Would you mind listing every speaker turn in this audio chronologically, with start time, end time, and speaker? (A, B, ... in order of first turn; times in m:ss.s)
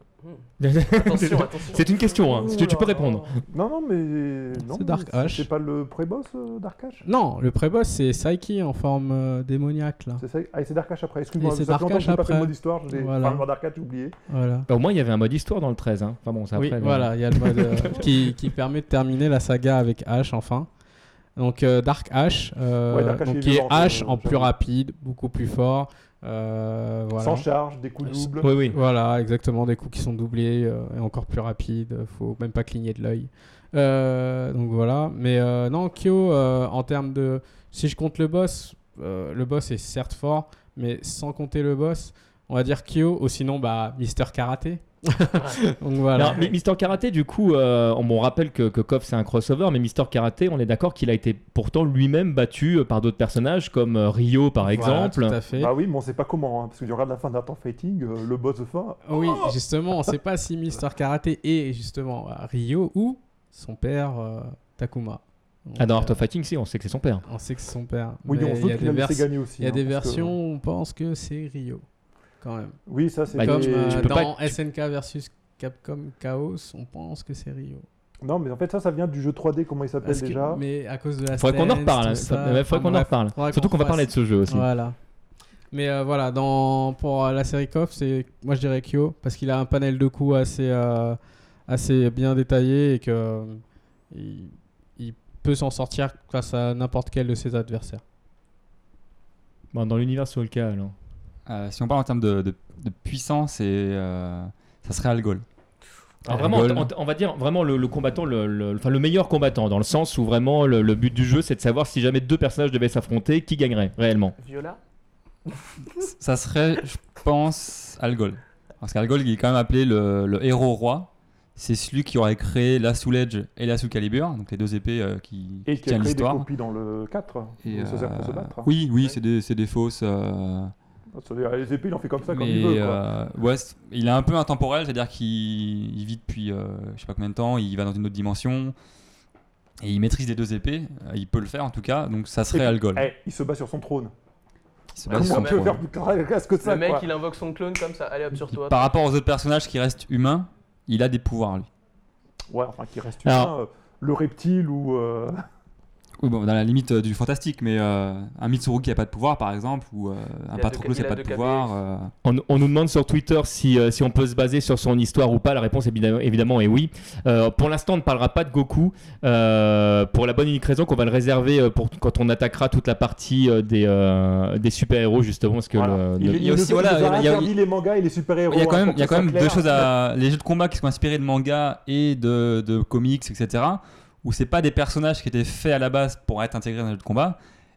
0:00.2-0:03.4 A
0:00.6-0:03.3 B
0:02.3-0:02.6 C
0:03.5-0:07.0 C
0:04.6-0:05.5 D
0:07.0-0:10.2 D
0:10.2-0:14.2 C
0:11.4-0:13.4 D
0:14.3-0:14.7 D
0:14.7-0:18.1 B
0:16.5-0:20.7 D
0:21.4-0:27.5 D
0:22.9-0:24.5 C
0:27.2-0:28.6 C
0:28.0-0:46.4 D
0:28.4-0:28.8 B
0:46.1-0:55.4 B
0:54.7-0:55.7 D
0:55.5-0:59.5 C
0:59.0-1:06.2 D
1:05.8-1:07.2 B
1:07.3-1:11.8 D
1:08.2-1:10.3 C
1:12.4-1:12.8 D
1:12.8-1:14.2 C
1:13.3-1:17.8 D
1:13.4-1:14.6 B
1:18.2-1:20.6 C
1:20.0-1:25.0 D
1:21.3-1:24.7 B
1:25.7-1:38.0 D
1:39.7-1:40.9 B
1:41.5-1:45.4 E
1:46.2-1:54.3 B
1:46.3-1:46.9 E
1:54.4-1:54.8 A
1:55.5-1:56.1 A
1:56.0-2:06.4 E
2:05.6-2:08.7 C
2:07.6-2:10.7 E
2:11.1-2:13.0 C
2:12.3-2:18.7 E
2:19.8-2:23.1 E
2:22.5-2:24.1 C
2:24.9-2:25.8 E
2:25.1-2:25.7 A
2:25.1-2:27.1 C
2:26.6-2:28.8 A
2:28.5-2:31.7 E
2:32.5-2:35.4 C
2:33.2-2:33.5 B
2:36.2-2:42.1 E
2:40.5-2:41.8 A
2:42.2-2:56.4 B
2:55.7-2:59.9 C
2:56.3-2:57.5 E
2:58.5-3:07.4 E